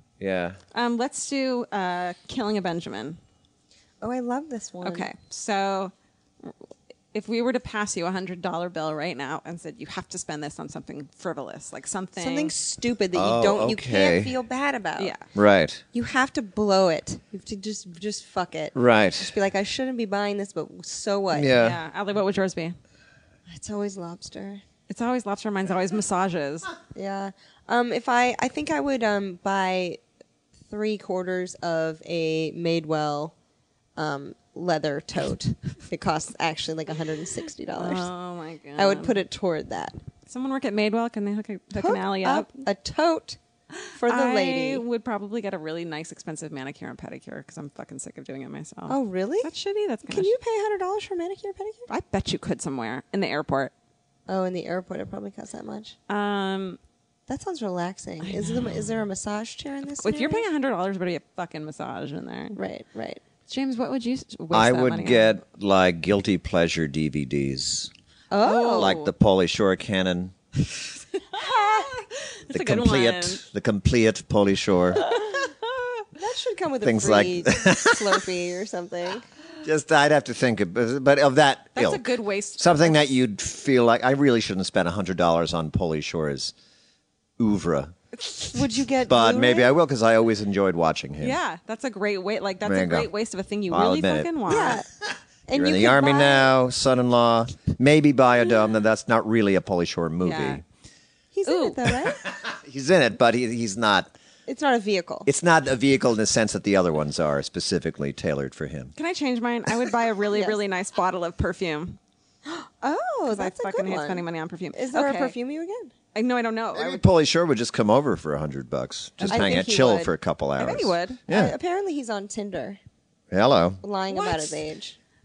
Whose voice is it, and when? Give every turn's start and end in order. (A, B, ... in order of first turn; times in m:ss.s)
0:00.2-0:00.6 A
0:00.7-0:03.2 B
0:04.0-0:05.1 C
0:04.8-0:06.5 B
0:07.1-0:12.5 B
0:12.2-0:15.1 C
0:13.1-0:14.4 A
0:15.4-0:15.8 A
0:15.9-0:21.5 C
0:18.7-0:19.3 A
0:21.3-0:21.8 A
0:21.6-0:22.8 B
0:23.5-0:24.6 C
0:24.9-0:26.7 B
0:26.9-0:30.0 C
0:30.7-0:33.3 C
0:34.0-0:38.1 C
0:37.8-0:39.2 B
0:38.8-0:40.0 C
0:40.3-0:42.5 B
0:41.7-0:43.4 C
0:43.9-0:50.3 B
0:43.9-0:44.8 C
0:48.9-0:49.5 C
0:50.1-0:51.9 C
0:51.9-0:53.7 B
0:54.3-0:55.9 C
0:56.1-0:56.8 B
0:57.3-1:00.4 C
0:58.2-0:58.8 B
1:00.0-1:02.6 B
1:02.6-1:03.2 C
1:03.5-1:05.4 B
1:04.5-1:07.9 A
1:08.3-1:09.0 C
1:08.4-1:09.1 B
1:08.7-1:10.4 A
1:11.3-1:13.4 B
1:11.4-1:11.9 C
1:12.5-1:15.1 A
1:15.3-1:15.6 B
1:16.1-1:19.2 C
1:16.8-1:18.2 A
1:19.6-1:22.0 A
1:21.7-1:23.0 B
1:22.6-1:26.5 A
1:27.4-1:27.9 A
1:28.5-1:29.7 C
1:29.1-1:31.4 A
1:31.2-1:34.8 B
1:32.6-1:33.1 A
1:33.7-1:34.3 A
1:34.5-1:34.9 C
1:35.5-1:36.5 C
1:35.5-1:40.6 A
1:40.2-1:40.6 B
1:41.3-1:42.2 C
1:41.4-1:41.9 B
1:42.2-1:44.1 A
1:44.5-1:45.3 C
1:45.2-1:48.9 A
1:49.0-1:52.0 B
1:52.5-1:55.9 C
1:53.3-1:55.4 B
1:56.1-1:57.0 B
1:56.7-2:01.6 A
1:59.2-1:59.7 B
1:59.3-2:00.1 C
2:00.6-2:01.2 B
2:01.3-2:02.8 C
2:03.3-2:03.8 A
2:03.8-2:05.0 C
2:04.1-2:04.6 B